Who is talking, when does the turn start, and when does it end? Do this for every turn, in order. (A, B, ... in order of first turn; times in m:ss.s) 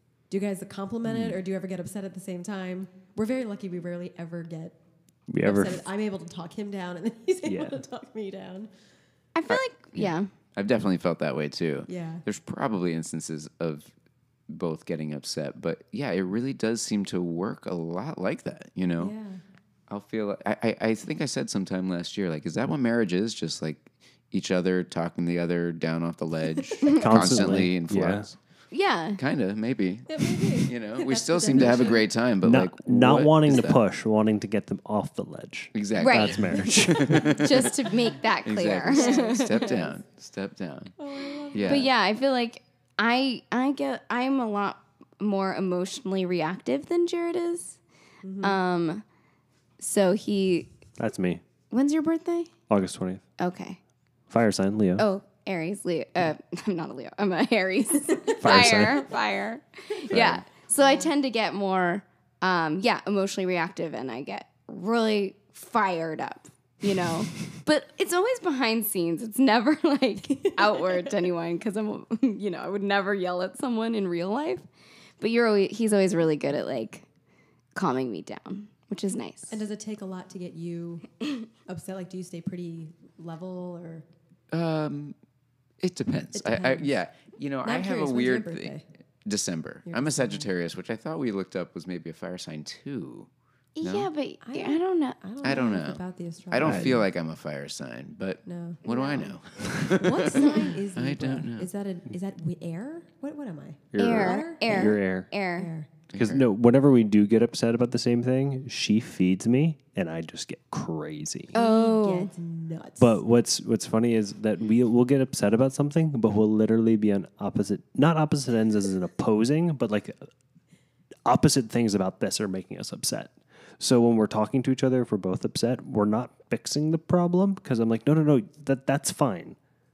0:00.3-0:04.8 A
0:05.3-0:05.8 B
0:05.4-0:08.7 A
0:07.4-0:07.8 B
0:09.4-0:10.3 C
0:09.5-0:13.9 D
0:11.9-0:12.2 A
0:14.5-0:19.1 D
0:19.0-0:19.4 A
0:19.9-0:28.4 D
0:27.0-0:28.3 B
0:28.7-0:29.2 C
0:29.2-0:33.8 D
0:30.1-0:32.1 A
0:32.4-0:37.4 B
0:35.7-0:37.7 D
0:36.0-0:36.5 C
0:37.3-0:39.8 C
0:38.4-0:40.9 D
0:38.9-0:40.0 A
0:41.0-0:41.9 A
0:41.5-0:41.9 D
0:41.6-0:47.8 C
0:48.2-0:48.6 A
0:48.4-0:49.0 C
0:49.8-0:50.7 C
0:51.0-0:51.4 B
0:51.7-0:52.5 C
0:52.7-0:53.2 B
0:53.4-0:53.8 C
0:54.3-0:55.1 B
0:55.0-1:14.6 C
0:58.4-0:59.1 B
1:00.1-1:00.4 D
1:00.8-1:01.1 A
1:10.4-1:11.1 A
1:15.2-1:17.1 C
1:17.8-1:19.6 C
1:19.5-1:21.1 A
1:21.7-1:24.0 A
1:24.5-1:25.2 D
1:25.8-1:28.7 D
1:26.4-1:27.0 A
1:27.6-1:28.8 A
1:29.2-1:33.3 D
1:29.9-1:30.5 A
1:33.8-1:35.2 C
1:33.8-1:34.1 D
1:34.4-1:37.1 A
1:35.4-1:41.7 D
1:36.6-1:37.0 B
1:38.4-1:45.0 A
1:43.9-1:45.3 B
1:44.0-1:45.7 C
1:45.6-1:45.9 A
1:46.1-1:46.5 D
1:46.1-1:51.5 B
1:51.5-1:53.2 A
1:51.5-1:52.3 C
1:53.0-2:00.2 B
2:01.2-2:09.6 B